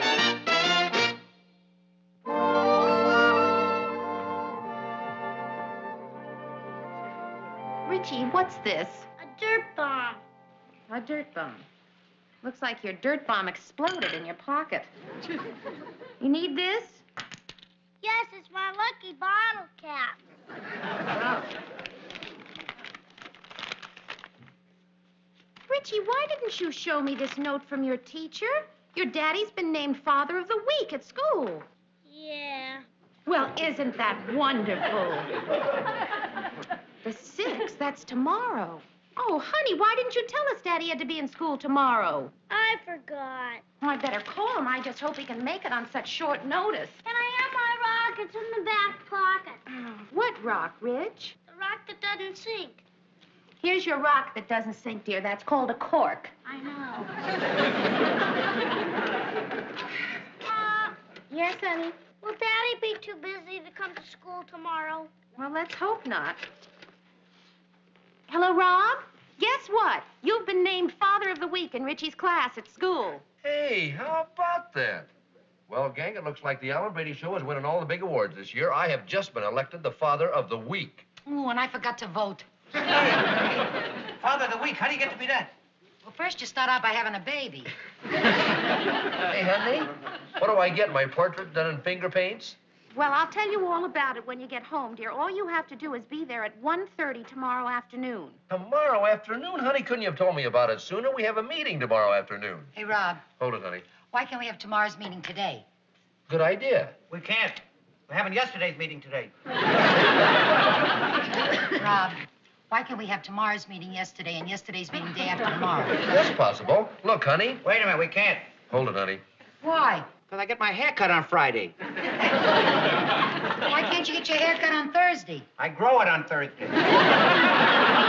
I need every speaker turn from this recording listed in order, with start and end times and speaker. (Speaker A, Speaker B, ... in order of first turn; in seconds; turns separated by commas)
Speaker A: 7.8-9.1, Speaker B: 9.2-10.2, Speaker A: 10.9-11.7, Speaker A: 12.4-14.9, Speaker A: 16.2-17.0, Speaker B: 18.0-20.2, Speaker A: 25.7-31.7, Speaker B: 32.0-32.9, Speaker A: 33.2-35.4, Speaker A: 37.0-42.3, Speaker B: 42.5-43.6, Speaker A: 43.8-47.0, Speaker B: 47.0-49.6, Speaker A: 49.8-51.4, Speaker B: 51.5-52.8, Speaker A: 53.6-56.3, Speaker B: 56.4-57.1, Speaker B: 60.5-61.0, Speaker A: 61.3-62.0, Speaker B: 62.2-65.1, Speaker A: 65.3-66.4, Speaker A: 68.3-73.2, Speaker C: 73.4-75.1, Speaker C: 75.7-81.0, Speaker D: 81.2-82.5, Speaker E: 84.2-85.5, Speaker D: 86.0-87.7, Speaker C: 89.2-92.6, Speaker A: 92.9-98.4, Speaker C: 98.5-102.7, Speaker D: 102.7-103.2, Speaker C: 103.4-103.9, Speaker D: 104.0-105.6, Speaker C: 106.3-107.0, Speaker E: 107.1-109.3, Speaker D: 111.8-116.0, Speaker C: 116.0-117.6, Speaker E: 117.6-118.5, Speaker C: 118.7-119.2, Speaker D: 119.6-120.1, Speaker E: 120.1-121.7, Speaker D: 123.6-125.5, Speaker E: 125.5-126.8